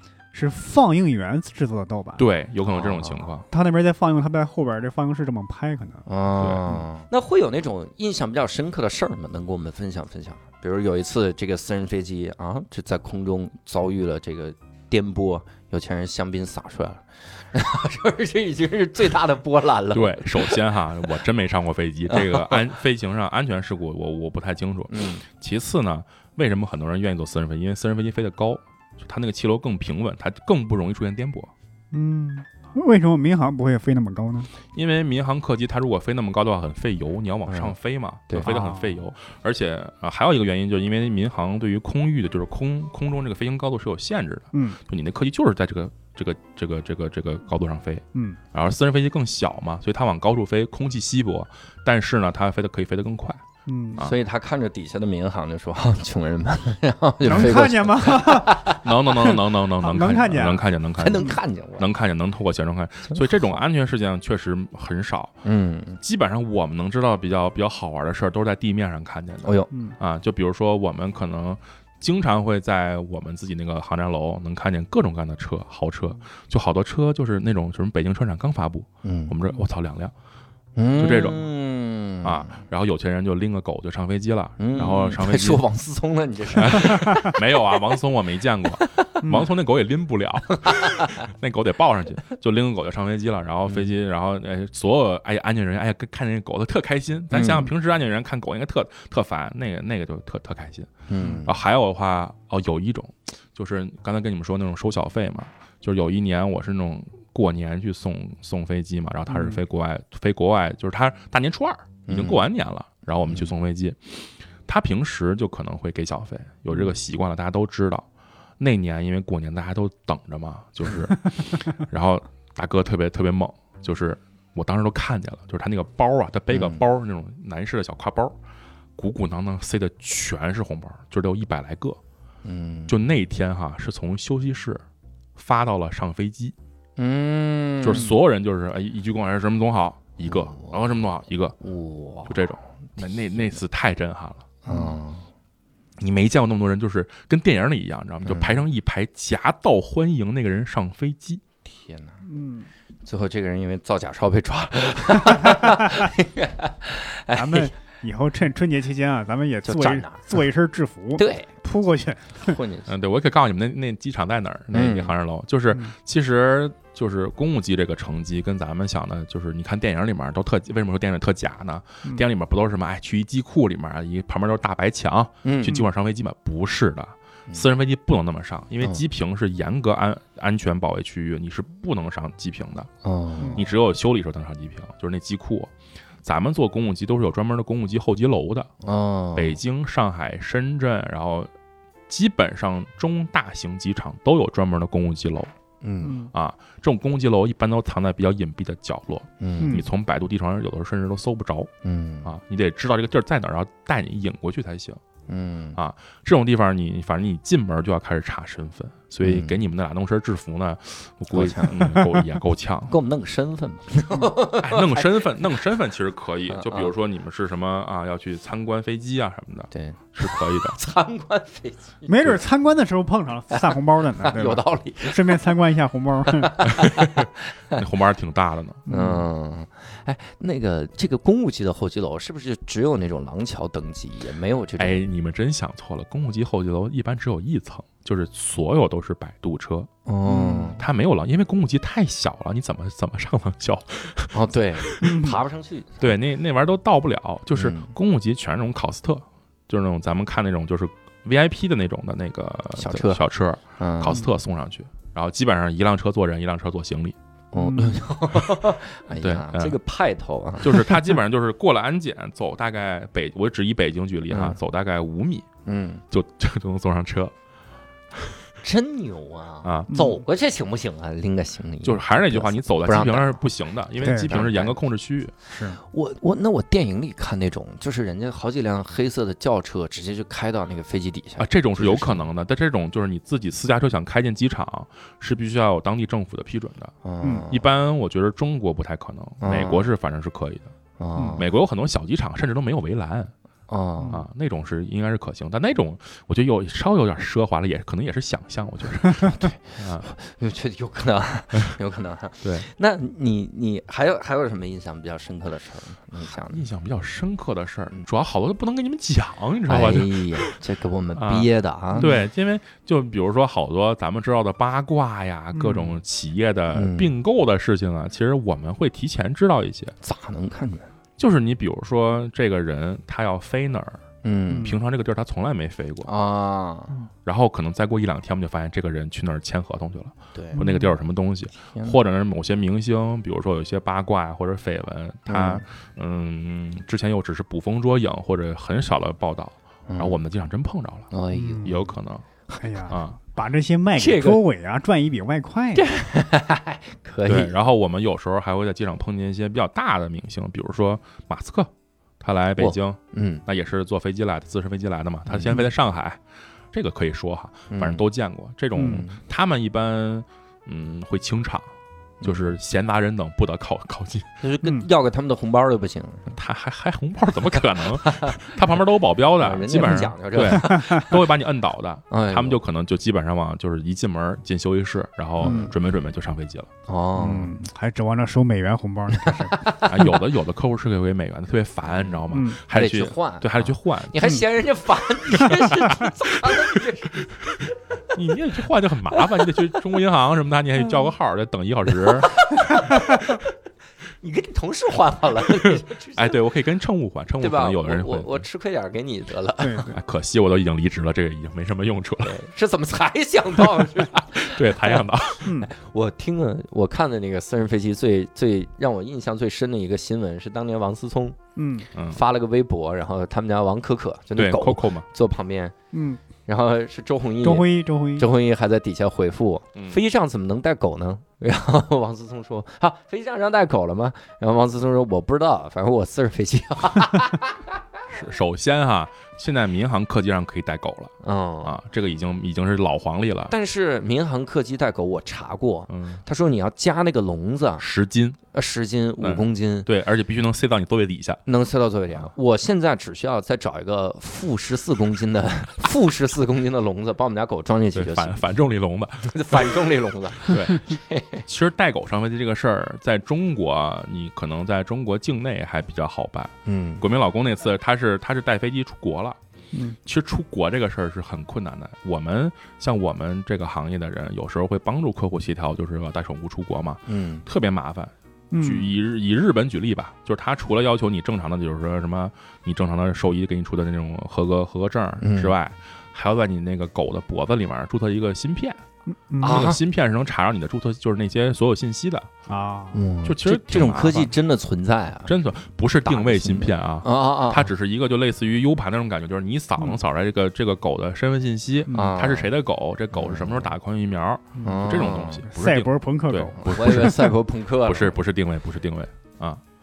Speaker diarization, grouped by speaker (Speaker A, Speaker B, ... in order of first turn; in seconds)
Speaker A: 0.3-2.3, 3.5-6.1, 31.9-34.5, 38.5-39.0, 44.5-44.8, 48.1-48.4, 53.7-54.0, 57.2-61.3, 69.7-70.0, 89.2-89.5, 109.3-109.6, 144.7-144.9, 152.2-152.7, 157.3-162.6, 196.0-196.3, 199.6-199.9, 222.1-226.7, 228.9-229.3, 240.3-240.7, 245.0-245.4, 257.6-258.0, 274.0-274.4, 275.5-275.8, 311.9-312.2, 315.5-315.9, 324.5-324.8, 330.6-330.9, 341.3-341.8, 342.5-345.9, 358.8-359.0, 370.6-371.1, 375.4-375.7, 377.2-379.7, 382.3-382.6, 399.6-400.0, 405.4-405.7, 411.6-411.9, 415.9-416.2, 417.4-418.3, 459.7-460.0, 468.5-468.9, 479.3-479.7, 482.5-483.0, 491.9-492.1, 494.6-497.3
Speaker B: 2.2-3.5, 19.9-31.5, 34.7-53.4, 58.8-65.4, 66.0-80.1, 81.0-81.4, 82.2-85.6, 86.5-100.9, 101.4-118.1, 118.6-128.4, 129.0-132.0, 132.9-134.8, 135.4-136.6, 137.8-141.6, 142.3-144.4, 146.0-151.4, 162.9-182.9, 183.5-185.7, 186.2-188.7, 189.3-191.5, 192.1-195.5, 196.3-201.7, 202.2-205.0, 205.8-212.9, 214.6-220.8, 226.8-228.8, 234.8-239.9, 240.8-245.1, 246.0-257.2, 259.2-259.8, 260.6-265.5, 266.1-267.3, 268.1-268.4, 269.6-269.9, 271.8-275.3, 281.4-286.9, 287.5-290.7, 291.4-293.3, 294.1-300.1, 302.4-302.7, 306.5-310.6, 311.1-319.9, 321.2-324.0, 324.6-326.1, 327.2-341.1, 341.6-342.2, 342.9-343.2, 347.2-356.2, 356.7-361.7, 362.2-364.3, 366.3-376.7, 379.8-384.3, 385.5-385.8, 388.1-392.4, 395.6-398.4, 399.9-402.4, 403.6-405.5, 411.9-412.2, 414.4-415.1, 428.1-433.5, 435.9-436.2, 437.8-438.4, 439.2-441.4, 447.9-449.7, 450.4-450.9, 451.5-459.4, 460.1-478.8, 479.4-482.3, 483.2-484.3, 485.3-499.6
Speaker C: 2.7-3.3, 6.1-20.6, 22.1-22.6, 24.9-25.2, 37.5-37.8, 54.0-58.9, 61.0-61.9, 65.4-66.0, 69.4-69.7, 79.0-79.3, 80.8-82.6, 84.6-87.4, 90.6-91.2, 97.3-97.7, 101.1-101.5, 112.1-112.4, 126.5-126.8, 132.4-132.9, 137.0-138.1, 140.2-140.8, 141.6-142.4, 144.6-145.3, 148.2-148.6, 151.7-152.2, 153.1-157.7, 159.7-160.4, 161.2-161.5, 162.4-162.9, 164.7-165.1, 175.4-175.8, 183.0-183.6, 188.8-189.6, 195.8-196.2, 199.4-199.8, 201.8-202.3, 205.3-205.8, 209.2-209.6, 211.3-212.0, 212.9-215.3, 216.5-216.9, 219.7-222.4, 223.5-225.4, 226.3-227.8, 228.9-235.0, 240.1-240.8, 244.3-246.1, 247.5-247.9, 252.8-253.2, 253.8-254.2, 257.5-261.1, 264.3-264.6, 265.6-266.0, 268.6-273.4, 274.1-274.8, 275.9-282.3, 287.0-287.6, 289.4-289.9, 291.0-291.5, 293.7-294.2, 299.2-306.6, 309.7-312.1, 316.7-317.1, 320.0-320.9, 324.2-324.7, 326.1-326.9, 330.3-330.6, 335.3-335.6, 339.9-340.2, 341.1-341.8, 344.0-344.4, 345.8-347.6, 352.6-353.4, 355.3-355.6, 357.7-358.1, 358.8-359.2, 364.4-366.4, 368.0-368.4, 369.4-371.1, 372.1-372.6, 375.4-375.7, 376.9-377.6, 379.2-379.9, 382.7-387.7, 389.2-389.4, 392.1-393.5, 394.2-396.4, 397.4-399.9, 402.2-411.4, 412.0-415.7, 416.5-427.8, 431.2-431.8, 433.5-437.8, 438.5-439.9, 441.5-448.4, 449.3-451.4, 456.6-457.0, 467.1-467.4, 475.2-475.6, 479.4-479.8, 482.9-485.3, 486.1-487.7, 491.9-492.5, 493.1-493.7, 494.6-495.5, 496.6-498.2